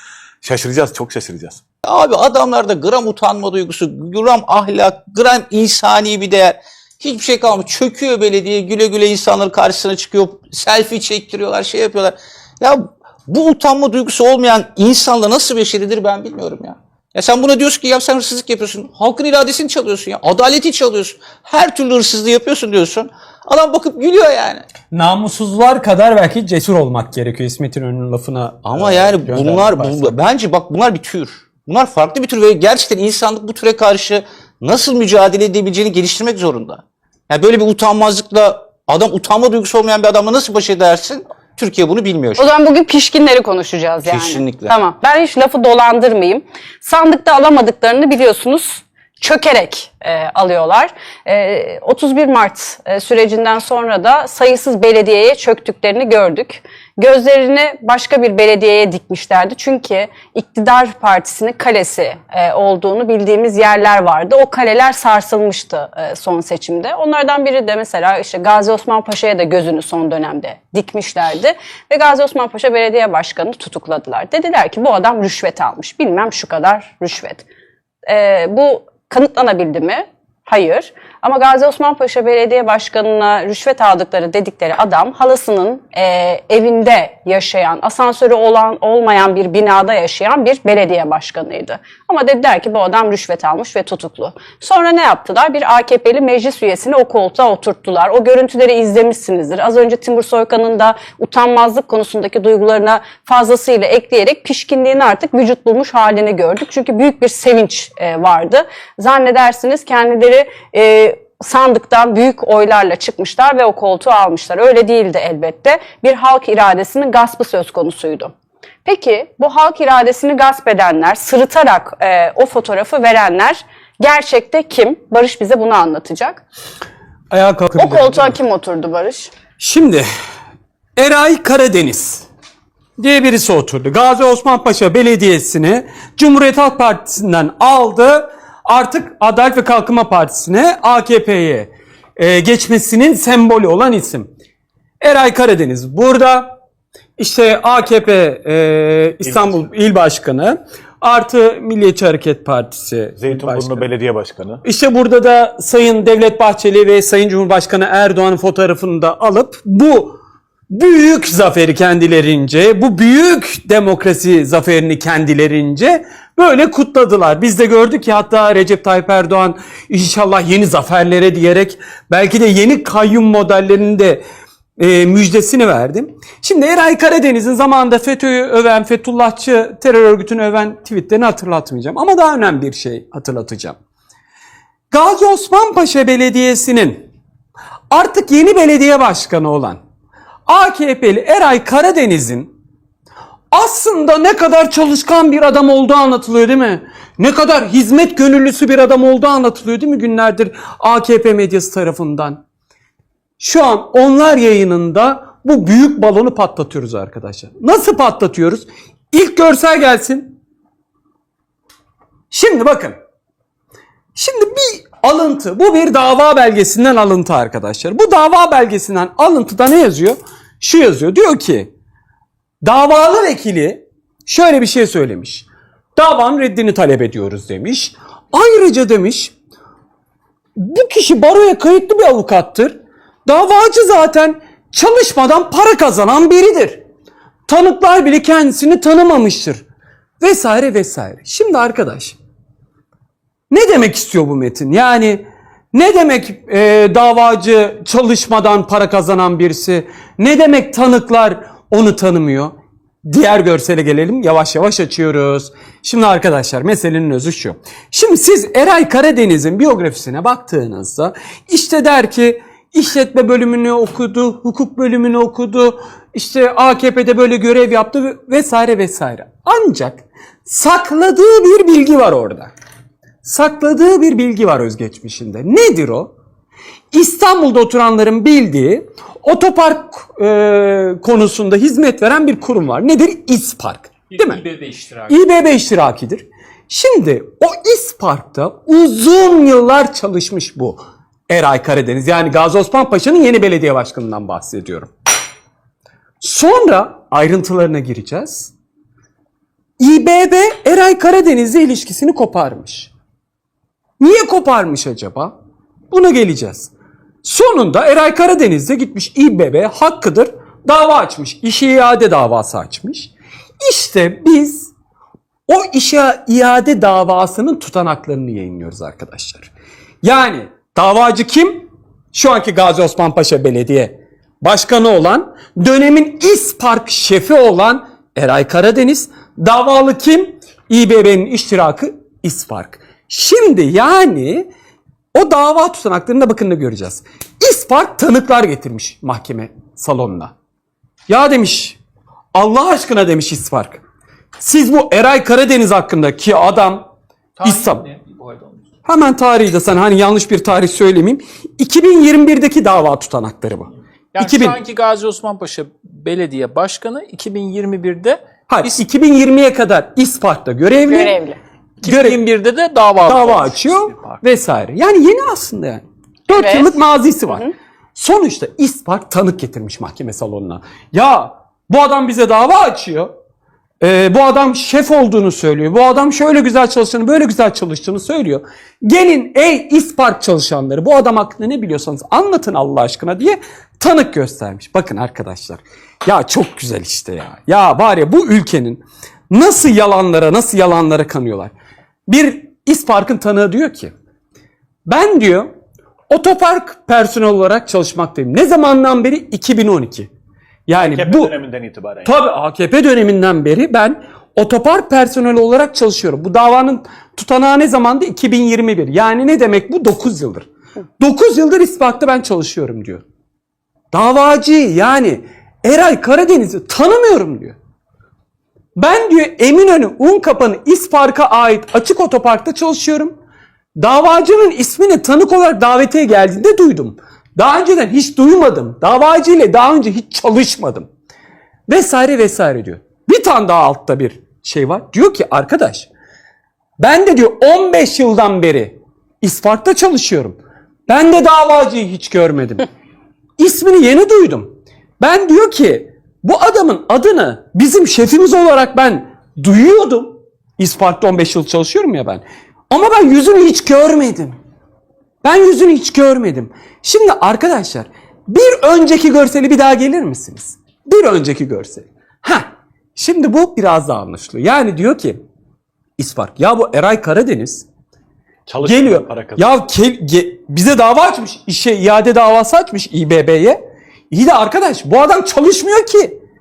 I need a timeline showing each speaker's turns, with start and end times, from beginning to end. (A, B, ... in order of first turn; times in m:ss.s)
0:00.4-0:01.6 A
0:01.8-0:24.6 B
0:24.9-0:30.2 C
0:28.7-0:42.5 B
0:42.4-1:17.5 D
0:44.0-0:44.7 B
1:18.1-1:58.3 D
1:58.8-2:06.4 D
2:07.3-2:08.4 C
2:07.8-2:09.3 D
2:09.6-2:10.0 C
2:11.0-2:12.3 C
2:13.0-2:24.3 C
2:25.0-2:26.5 C
2:27.2-2:33.8 C
2:33.2-2:34.6 A
2:34.6-2:40.2 C
2:40.7-2:54.2 C
2:54.8-3:03.8 C
3:04.9-3:07.1 C
3:07.9-3:09.8 C
3:10.5-3:12.5 C
3:13.5-3:22.4 C
3:23.4-3:30.4 C
3:32.3-3:33.0 C
3:34.2-3:41.7 C
3:42.6-3:49.3 C
3:50.6-3:52.7 C
3:53.3-3:56.8 C
3:57.5-3:59.6 C
4:00.2-4:02.2 C
4:03.5-4:12.5 C
4:13.1-4:32.5 C
4:33.2-4:36.1 C
4:36.9-4:44.4 C
4:44.3-4:44.6 E
4:44.6-4:45.1 A
4:45.1-4:54.9 C
4:56.2-4:58.5 C
4:59.8-5:02.9 C
5:04.0-5:05.3 C
5:05.9-5:06.7 C
5:07.2-5:13.1 C
5:13.6-5:14.7 C
5:15.5-5:19.5 C
5:20.0-5:34.5 C
5:35.1-5:40.3 C
5:41.1-5:41.8 C
5:42.3-5:43.8 C
5:44.4-5:46.9 C
5:47.4-5:48.3 E
5:47.4-5:47.8 C
5:48.8-5:54.6 C
5:54.2-5:58.2 E
5:58.5-6:01.2 C
6:00.9-6:01.4 D
6:01.8-6:02.2 C
6:01.8-6:03.7 E
6:03.0-6:13.1 C
6:06.3-6:06.8 D
6:13.8-6:31.5 C
6:32.1-6:33.9 C
6:34.9-6:35.5 C
6:36.1-6:40.1 C
6:40.7-6:41.3 C
6:40.8-6:42.1 A
6:42.0-6:50.5 C
6:51.0-6:53.0 C
6:53.9-6:57.6 C
6:58.8-7:03.1 C
7:03.8-7:10.9 C
7:11.7-7:15.9 C
7:16.8-7:22.7 C
7:23.4-7:34.4 C
7:35.2-7:42.4 C
7:43.0-7:45.2 C
7:46.0-7:47.7 C
7:48.5-7:49.4 A
7:48.6-7:53.6 C
7:54.1-7:56.1 C